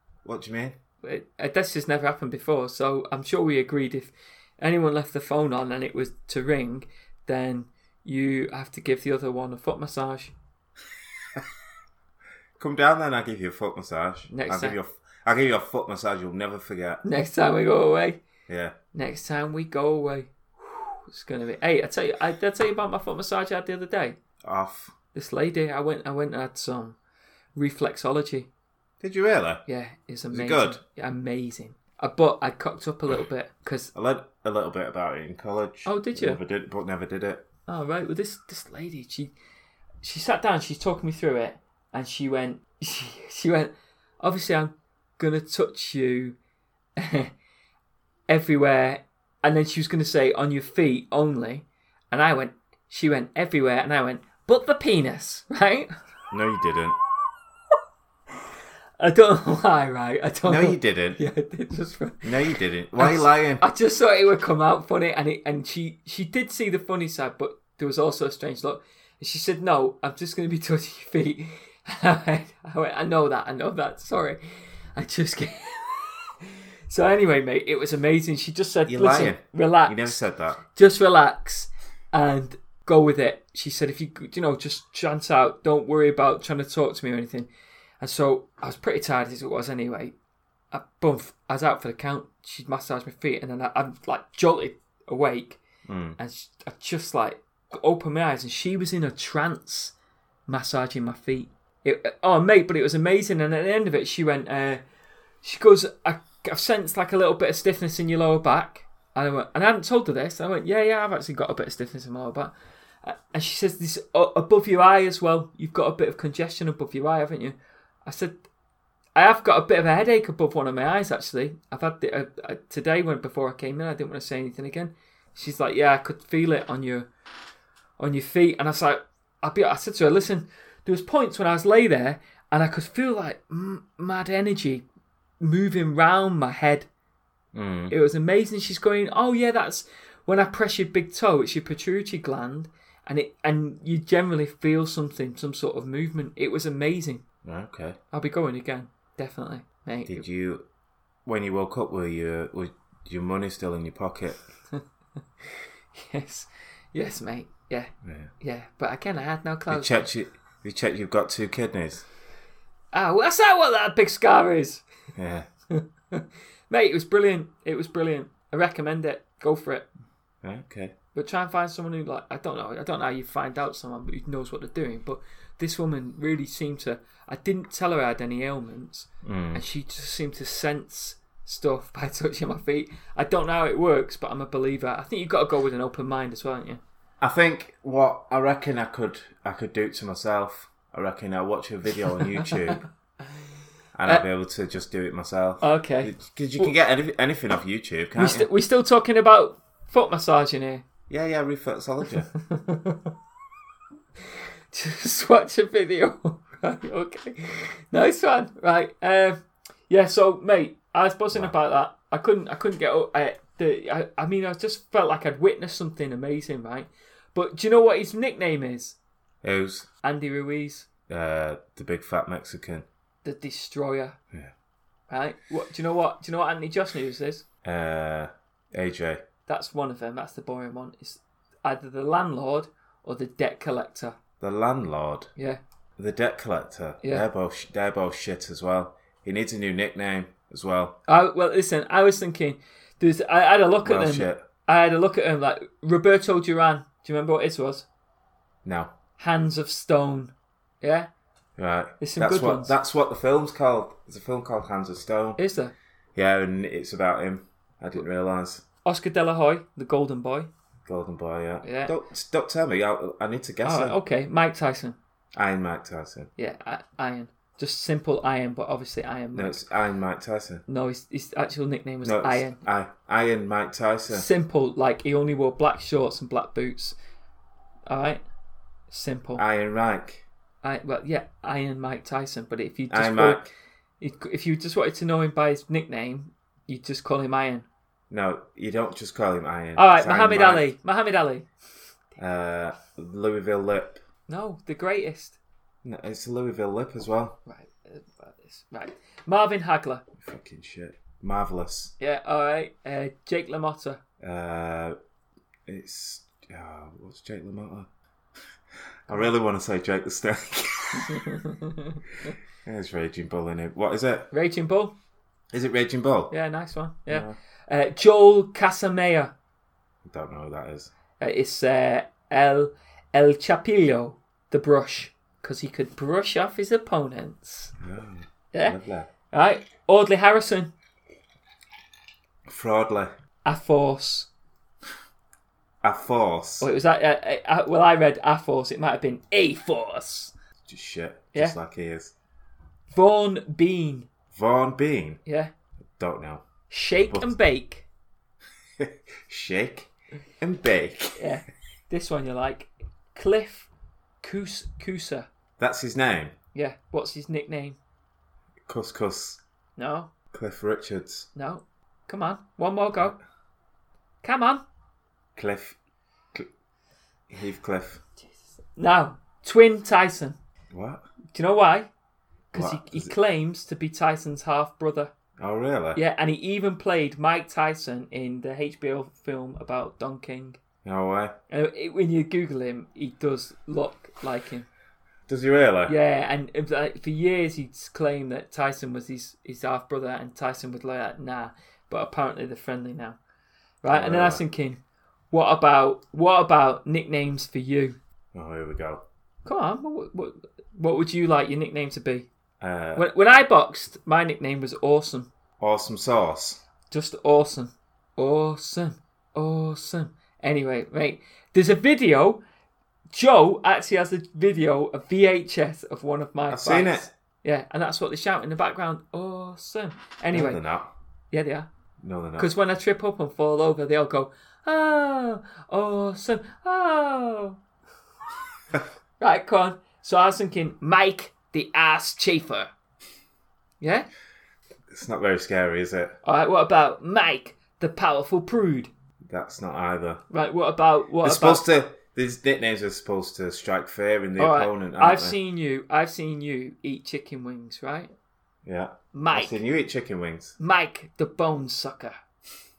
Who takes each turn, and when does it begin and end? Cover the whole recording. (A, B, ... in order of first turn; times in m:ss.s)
0:00.2-0:00.8 A
0:01.0-0:10.3 B
0:12.6-0:17.0 A
0:14.3-0:14.8 B
0:17.0-0:18.2 B
0:18.5-0:18.8 A
0:18.9-0:24.2 B
0:24.4-0:24.9 A
0:25.1-0:27.0 B
0:27.6-0:28.5 B
0:29.0-0:29.6 A
0:29.7-0:33.9 B
0:30.3-0:30.8 A
0:33.9-0:37.4 A
0:35.9-0:36.4 B
0:37.7-0:39.3 B
0:40.0-0:46.4 B
0:47.0-0:47.3 B
0:48.3-0:55.9 B
0:56.3-0:57.0 A
0:59.0-1:02.3 B
1:00.4-1:01.2 A
1:02.2-1:03.6 A
1:03.0-1:14.4 B
1:15.0-1:16.3 B
1:16.9-1:20.2 B
1:18.9-1:20.6 A
1:20.7-1:27.5 B
1:28.0-1:30.2 B
1:30.7-1:35.6 B
1:35.9-1:36.2 A
1:36.2-1:39.9 B
1:40.5-1:44.8 B
1:45.4-1:52.5 B
1:53.0-1:58.4 B
1:59.2-2:07.1 B
2:08.0-2:14.8 B
2:15.4-2:16.9 B
2:17.5-2:17.9 A
2:17.9-2:27.2 B
2:27.4-2:28.0 A
2:28.1-2:30.2 B
2:30.1-2:30.6 A
2:31.3-2:34.4 A
2:36.0-2:40.1 B
2:38.0-2:38.3 A
2:39.7-2:42.1 A
2:42.9-2:44.8 B
2:45.2-2:45.5 A
2:45.7-2:49.9 B
2:50.4-2:50.9 A
2:51.2-3:06.8 B
2:59.2-2:59.6 A
3:07.2-3:12.8 A
3:12.4-3:12.8 B
3:14.0-3:18.5 A
3:15.6-3:16.7 B
3:18.2-3:20.8 B
3:21.1-3:22.3 A
3:22.4-3:23.1 B
3:24.7-3:39.0 B
3:39.4-3:39.9 A
3:40.0-3:40.9 B
3:41.1-3:42.9 A
3:43.2-3:44.2 B
3:45.1-3:47.4 B
3:47.6-3:49.2 A
3:49.5-3:54.2 B
3:54.4-3:55.3 A
3:56.0-4:01.0 A
4:01.1-4:07.9 B
4:03.8-4:04.5 A
4:08.6-4:08.9 A
4:09.2-4:11.1 B
4:11.6-4:15.4 A
4:12.0-4:12.8 B
4:15.4-4:15.7 B
4:16.2-4:18.6 A
4:18.8-4:20.5 B
4:20.9-4:24.0 A
4:21.6-4:22.0 B
4:23.6-4:25.0 B
4:25.4-4:26.3 A
4:26.4-4:29.6 B
4:29.4-4:30.6 A
4:30.7-4:32.6 B
4:32.0-4:34.3 A
4:34.1-4:37.0 B
4:37.9-4:38.2 B
4:38.9-4:39.4 B
4:39.4-4:40.2 A
4:40.6-4:43.4 B
4:42.9-4:43.5 A
4:44.0-4:47.7 B
4:48.1-4:50.7 A
4:49.8-4:51.5 B
4:52.2-4:54.0 A
4:54.3-4:55.4 B
4:55.8-4:57.4 A
4:57.5-5:00.0 B
5:00.2-5:01.9 A
5:02.0-5:04.0 B
5:04.2-5:05.0 A
5:05.7-5:07.9 A
5:09.1-5:11.3 A
5:10.9-5:12.3 B
5:12.6-5:14.3 A
5:14.3-5:15.0 B
5:15.5-5:16.3 A
5:16.3-5:19.3 B
5:17.1-5:17.4 A
5:20.0-5:20.9 A
5:21.2-5:27.7 B
5:27.8-5:29.1 A
5:28.5-5:28.8 B
5:29.3-5:30.7 B
5:32.5-5:33.1 A
5:33.4-5:34.3 B
5:35.8-5:36.7 A
5:36.6-5:40.3 B
5:40.7-5:42.1 A
5:42.9-5:44.1 B
5:44.3-5:45.2 A
5:45.3-5:45.5 B
5:46.0-5:46.5 A
5:46.7-5:47.9 B
5:47.1-5:47.3 A
5:48.8-5:51.2 A
5:51.2-5:53.7 B
5:54.2-5:55.3 B
5:55.6-5:56.4 A
5:56.5-5:57.8 B
5:58.7-5:59.4 A
5:59.8-6:00.1 B
6:00.3-6:01.3 A
6:01.4-6:03.2 B
6:04.2-6:04.6 B
6:05.4-6:05.8 A
6:07.3-6:08.0 A
6:08.8-6:10.4 B
6:10.7-6:11.0 A
6:11.3-6:11.9 B
6:12.5-6:15.1 B
6:12.5-6:13.1 A
6:15.4-6:16.0 A
6:16.0-6:20.6 B
6:20.8-6:21.4 A
6:21.5-6:24.7 B
6:25.3-6:26.0 A
6:25.9-6:33.2 B
6:33.8-6:34.8 B
6:33.9-6:34.4 A
6:35.3-6:38.0 B
6:38.3-6:39.0 A
6:39.4-6:42.3 B
6:42.6-6:43.1 A
6:43.0-6:45.3 B
6:45.6-6:46.6 A
6:46.9-6:52.4 B
6:53.1-7:00.6 B
6:56.5-6:57.1 A
7:00.3-7:00.9 A
7:01.3-7:01.7 B
7:02.0-7:02.5 A
7:02.4-7:07.6 B
7:09.2-7:12.7 B
7:13.8-7:14.1 B
7:14.9-7:16.2 A
7:16.2-7:18.9 B
7:19.2-7:20.2 A
7:20.3-7:21.6 B
7:21.2-7:25.4 A
7:24.4-7:28.1 B
7:28.6-7:30.6 A
7:29.1-7:29.6 B
7:30.6-7:32.2 B